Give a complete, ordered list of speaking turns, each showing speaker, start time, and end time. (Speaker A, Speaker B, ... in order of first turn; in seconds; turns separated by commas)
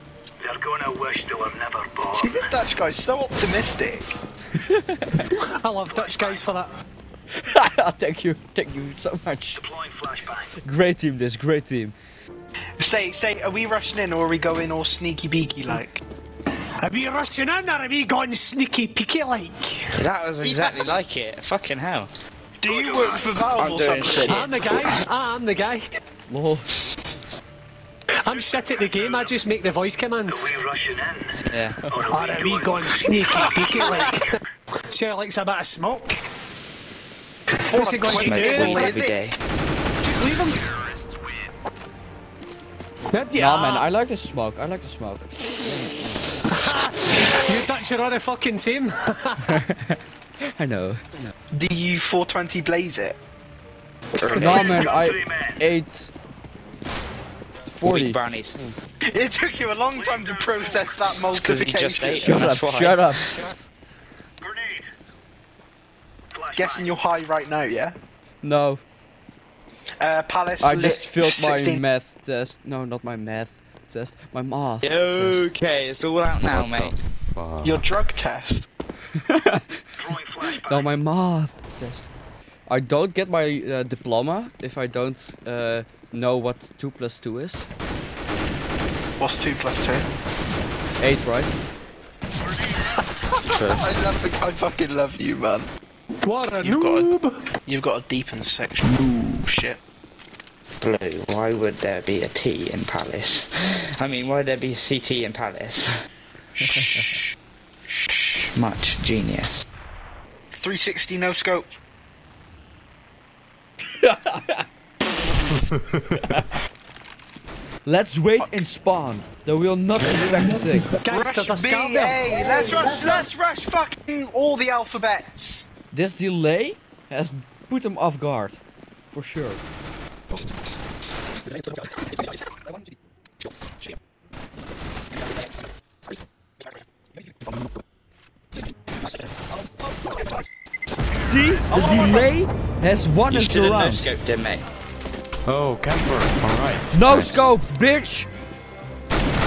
Speaker A: 0.4-2.3, Speaker B: 2.1-4.0, Speaker C: 4.6-5.2, Speaker D: 5.6-6.7, Speaker A: 5.9-6.4, Speaker C: 7.4-9.6, Speaker A: 9.6-10.5, Speaker C: 10.6-11.9, Speaker B: 12.8-16.0, Speaker D: 16.8-19.9, Speaker E: 20.0-22.1, Speaker B: 20.4-20.9, Speaker B: 22.6-24.5, Speaker A: 22.7-23.3, Speaker E: 23.6-25.0, Speaker D: 24.3-25.8, Speaker C: 26.3-26.7, Speaker D: 28.2-30.6, Speaker A: 28.3-29.4, Speaker A: 30.3-33.9, Speaker E: 31.5-31.8, Speaker D: 32.1-34.3, Speaker D: 34.9-36.2, Speaker D: 37.5-38.9, Speaker B: 37.6-39.2, Speaker E: 38.2-39.4, Speaker D: 40.0-40.6, Speaker D: 43.1-43.9, Speaker C: 43.4-45.2, Speaker D: 46.5-49.5, Speaker C: 49.5-50.0, Speaker C: 50.5-51.0, Speaker B: 51.5-53.2, Speaker E: 54.2-54.8, Speaker C: 54.3-56.1, Speaker A: 54.6-55.5, Speaker C: 57.7-58.7, Speaker E: 57.9-58.6, Speaker B: 59.1-62.4, Speaker A: 60.1-60.7, Speaker E: 61.3-63.4, Speaker C: 62.1-63.2, Speaker A: 64.4-64.8, Speaker A: 66.3-66.9, Speaker B: 66.5-67.9, Speaker C: 68.4-68.8, Speaker B: 70.0-71.8, Speaker C: 70.6-75.4, Speaker E: 74.8-76.9, Speaker F: 76.4-77.8, Speaker B: 77.6-78.7, Speaker C: 79.2-79.7, Speaker A: 80.0-80.8, Speaker C: 80.6-82.1, Speaker C: 82.7-87.7, Speaker B: 89.2-90.1, Speaker C: 91.0-91.5, Speaker B: 92.7-95.7, Speaker E: 93.4-93.8, Speaker D: 96.2-97.4, Speaker B: 96.6-97.1, Speaker B: 97.7-99.8, Speaker E: 100.8-105.9, Speaker E: 108.5-109.5, Speaker B: 110.5-111.7, Speaker C: 114.0-114.6, Speaker C: 117.8-120.9, Speaker D: 121.0-122.5, Speaker B: 121.0-125.7, Speaker C: 125.9-129.6, Speaker C: 141.2-144.1, Speaker B: 141.7-142.2, Speaker E: 143.3-144.6, Speaker F: 145.5-147.5, Speaker C: 146.9-148.3